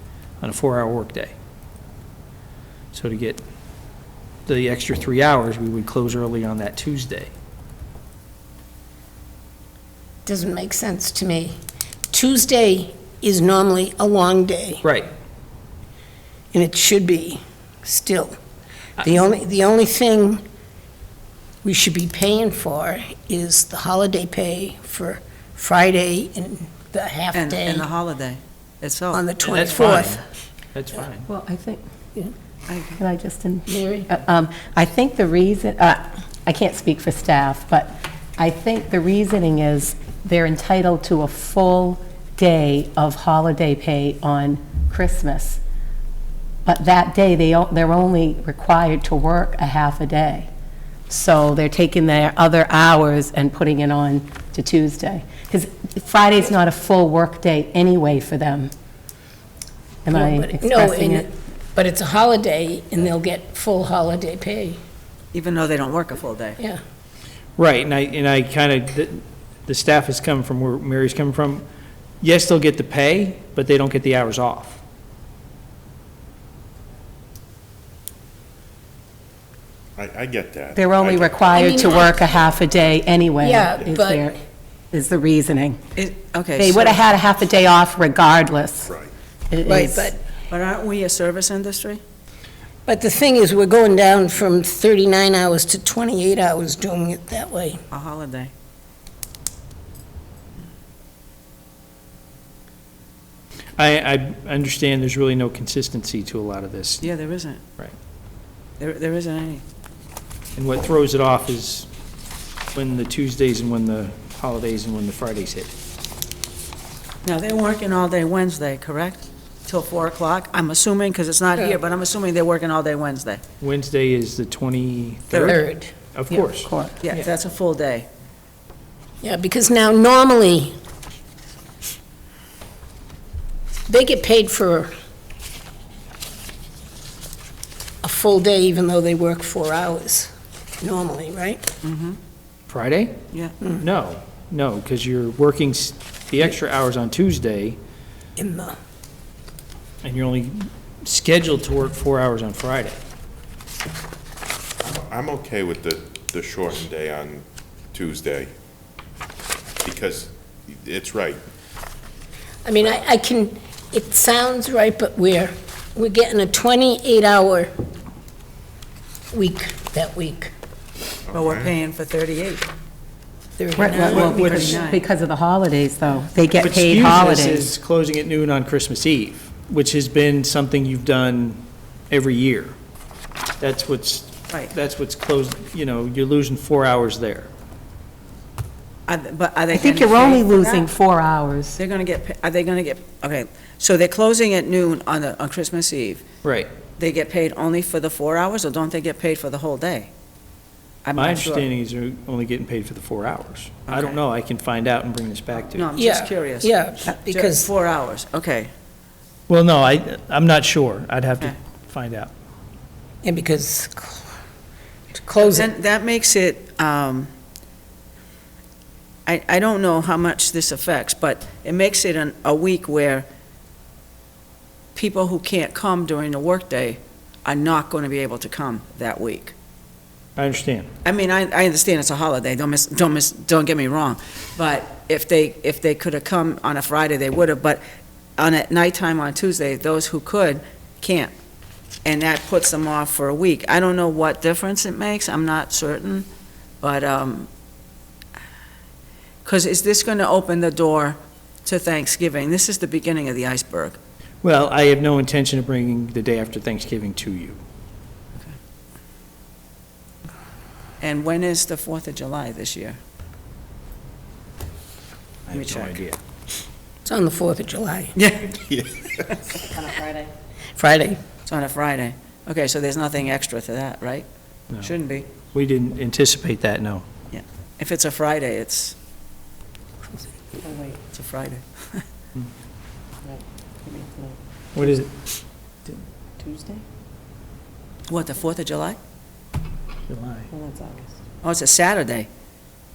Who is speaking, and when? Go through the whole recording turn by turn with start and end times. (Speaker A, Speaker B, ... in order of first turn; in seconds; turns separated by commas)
Speaker A: 0.4-1.3, Speaker A: 2.9-3.4, Speaker A: 4.5-7.3, Speaker B: 10.2-11.6, Speaker B: 12.1-14.8, Speaker A: 14.8-15.1, Speaker B: 16.5-18.4, Speaker B: 19.0-20.4, Speaker B: 21.6-27.9, Speaker C: 27.3-29.3, Speaker B: 29.1-30.2, Speaker A: 29.4-30.2, Speaker A: 30.7-31.3, Speaker D: 31.3-31.8, Speaker C: 32.7-33.0, Speaker D: 33.0-45.6, Speaker B: 33.7-34.1, Speaker D: 46.6-50.5, Speaker D: 51.1-58.7, Speaker D: 60.0-61.2, Speaker B: 60.1-64.8, Speaker C: 65.3-66.6, Speaker A: 67.6-71.6, Speaker A: 72.2-74.8, Speaker E: 80.0-81.7, Speaker D: 80.7-84.4, Speaker B: 81.5-82.2, Speaker B: 83.4-84.3, Speaker D: 84.9-85.8, Speaker C: 86.0-87.1, Speaker D: 86.6-88.9, Speaker E: 88.8-89.1, Speaker D: 89.5-90.2, Speaker B: 89.6-90.2, Speaker C: 90.5-92.0, Speaker B: 92.8-97.8, Speaker C: 97.9-98.5, Speaker A: 103.8-107.1, Speaker C: 107.0-107.6, Speaker C: 108.8-109.6, Speaker A: 110.5-111.9, Speaker A: 112.7-115.7, Speaker C: 117.2-123.4, Speaker A: 123.6-127.2, Speaker C: 125.3-125.6, Speaker B: 125.4-125.9, Speaker D: 126.3-127.0, Speaker C: 127.0-128.1, Speaker B: 129.2-130.7, Speaker B: 133.9-134.9, Speaker B: 138.0-141.7, Speaker C: 141.8-142.2, Speaker A: 142.7-143.2, Speaker A: 143.8-147.8, Speaker B: 148.4-148.8, Speaker A: 150.0-153.0, Speaker E: 154.8-158.5, Speaker E: 159.8-161.4, Speaker B: 162.6-167.7, Speaker B: 169.3-170.5, Speaker E: 171.3-171.7, Speaker C: 171.3-172.7, Speaker B: 173.6-174.8, Speaker D: 173.8-177.7, Speaker C: 173.8-175.0, Speaker A: 174.0-174.8, Speaker A: 176.6-182.8, Speaker A: 183.6-187.5, Speaker C: 189.1-190.9, Speaker D: 189.7-191.8, Speaker C: 191.8-196.2, Speaker A: 196.4-196.7, Speaker C: 197.0-200.1, Speaker C: 201.0-201.7, Speaker A: 201.1-205.9, Speaker C: 203.9-204.2, Speaker C: 205.7-208.7, Speaker B: 205.9-207.7, Speaker A: 209.5-212.3, Speaker B: 213.2-214.3, Speaker B: 215.1-215.7, Speaker C: 215.3-217.3, Speaker C: 219.2-223.3, Speaker C: 224.9-229.5, Speaker A: 230.3-230.9, Speaker C: 231.0-237.8, Speaker C: 238.4-241.3, Speaker C: 242.0-246.3, Speaker C: 246.8-247.5, Speaker C: 249.4-254.0, Speaker A: 254.4-257.6, Speaker C: 261.0-263.0, Speaker A: 265.5-266.2, Speaker C: 265.5-266.0, Speaker B: 267.0-268.1, Speaker C: 268.1-268.6, Speaker E: 268.5-269.4, Speaker D: 269.7-270.3, Speaker B: 270.7-271.2, Speaker C: 271.4-274.2, Speaker C: 274.8-275.3, Speaker A: 275.5-277.0, Speaker C: 277.3-278.9, Speaker D: 280.6-281.0, Speaker C: 281.0-282.0, Speaker D: 283.2-285.0, Speaker A: 284.7-285.2, Speaker D: 286.4-286.8, Speaker C: 288.1-289.0, Speaker A: 290.1-290.5, Speaker D: 290.5-291.1, Speaker C: 291.4-292.3